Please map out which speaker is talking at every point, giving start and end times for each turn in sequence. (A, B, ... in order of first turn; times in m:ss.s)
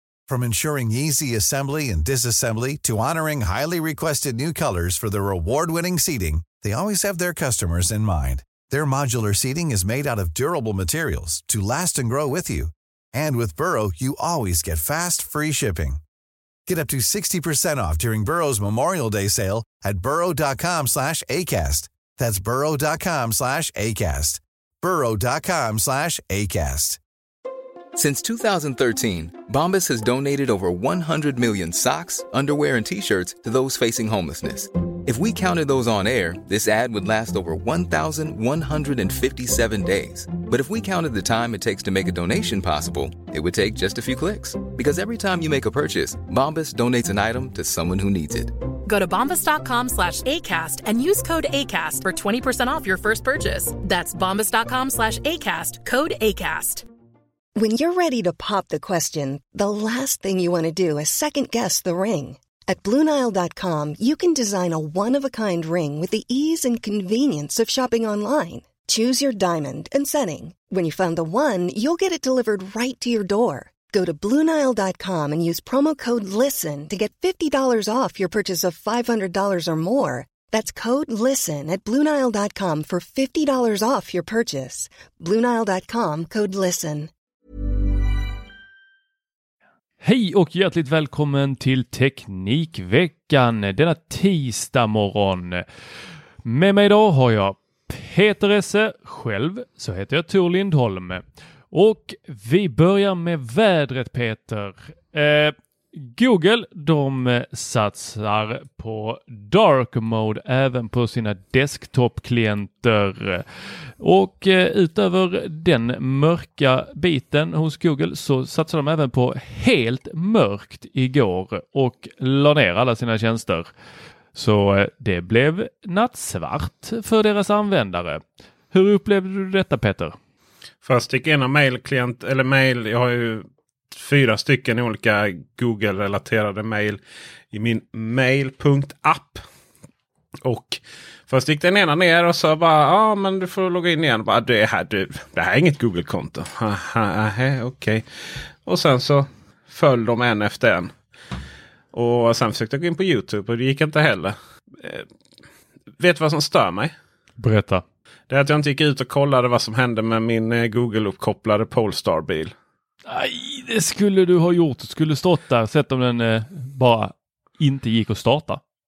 0:00.3-0:16.0 A
0:16.7-0:27.0 A
0:28.0-0:48.5 B
0:48.9-0:56.8 C
0:57.6-1:27.1 D
1:30.0-1:35.6 E
1:36.4-1:53.4 E
1:54.0-2:03.7 E
2:04.3-2:08.2 E
2:08.7-2:10.2 E
2:10.8-2:17.0 F
2:17.5-2:19.4 F
2:20.4-2:28.0 F
2:28.7-2:30.9 F
2:31.9-2:35.0 F
2:36.0-2:36.9 F
2:37.4-2:37.8 E
2:38.3-2:42.5 F
2:43.1-2:48.6 E